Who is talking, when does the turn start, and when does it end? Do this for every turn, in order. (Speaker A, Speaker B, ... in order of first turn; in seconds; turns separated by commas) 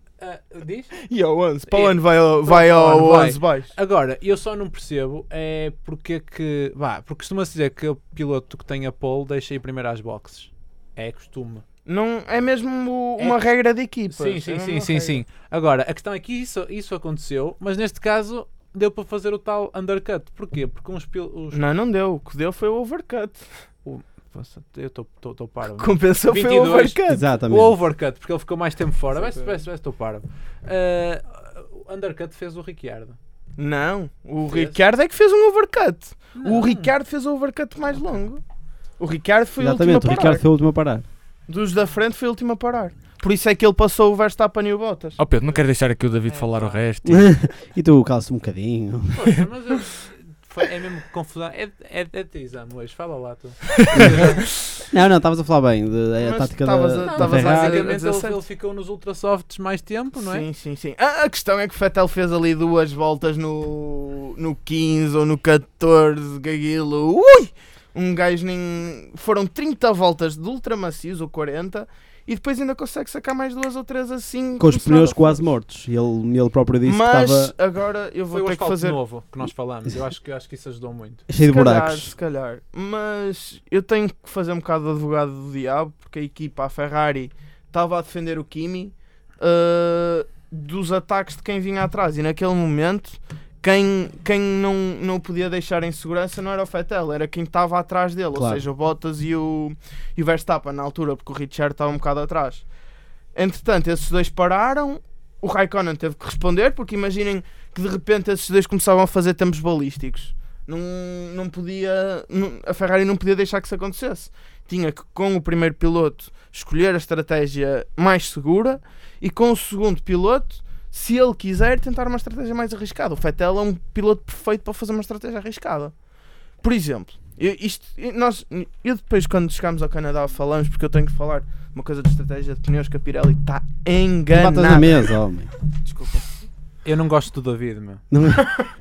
Speaker A: 0.2-1.0, Speaker B: 1.0-3.7, Speaker A: 1.7-11.6, Speaker B: 11.8-15.2, Speaker A: 13.2-13.4, Speaker A: 14.1-21.6, Speaker B: 21.5-23.5, Speaker A: 23.8-33.2, Speaker B: 25.8-27.2, Speaker C: 27.1-27.8, Speaker B: 29.1-29.6, Speaker B: 33.6-38.4, Speaker A: 34.5-34.8, Speaker A: 36.4-36.9, Speaker B: 39.0-40.4, Speaker C: 39.6-41.0, Speaker B: 41.5-45.2, Speaker D: 45.2-47.3, Speaker A: 46.2-46.8, Speaker C: 47.0-49.4, Speaker A: 49.1-54.4, Speaker C: 54.9-57.9, Speaker B: 56.2-58.4, Speaker A: 57.0-60.5, Speaker B: 60.2-75.4, Speaker C: 74.6-77.5, Speaker B: 76.8-79.0, Speaker A: 78.3-81.2, Speaker C: 81.3-82.1, Speaker B: 81.4-102.6, Speaker C: 98.3-98.6, Speaker B: 103.3-125.9, Speaker B: 126.6-135.1, Speaker C: 134.3-135.5, Speaker B: 135.8-136.3, Speaker A: 136.8-138.0, Speaker C: 138.1-138.5